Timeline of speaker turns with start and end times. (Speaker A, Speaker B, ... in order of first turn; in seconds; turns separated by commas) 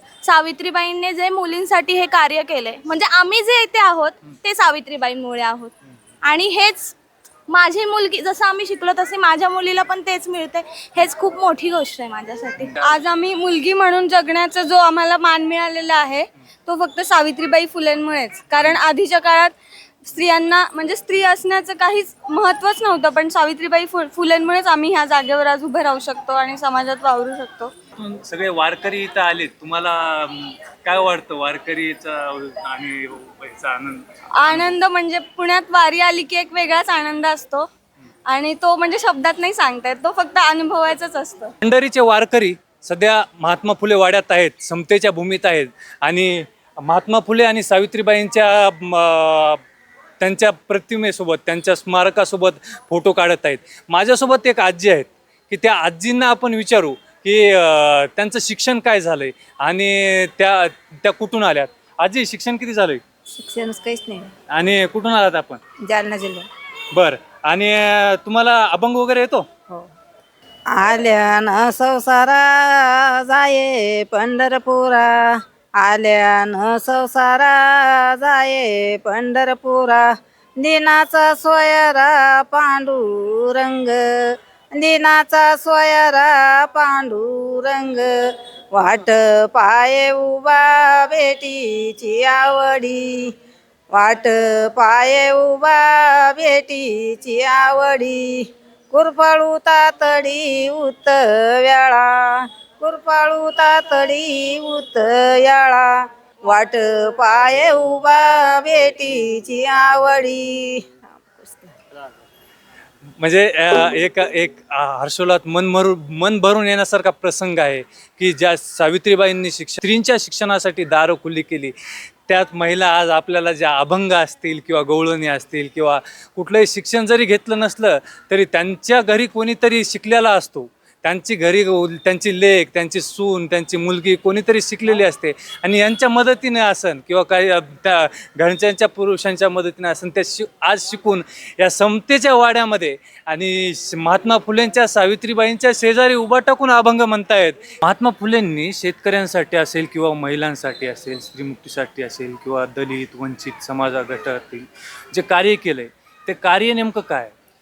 Speaker A: 0.2-7.0, Speaker A: 7.5-19.5, Speaker A: 20.1-27.7, Speaker B: 28.0-34.7, Speaker A: 34.4-37.7, Speaker A: 38.2-41.5, Speaker B: 41.6-49.6, Speaker B: 50.2-63.0, Speaker B: 64.5-65.6, Speaker C: 65.9-66.4, Speaker B: 66.9-69.5, Speaker C: 70.7-88.1, Speaker C: 88.7-93.3, Speaker C: 93.9-105.9, Speaker C: 106.5-110.8, Speaker B: 113.2-121.7, Speaker B: 122.3-157.3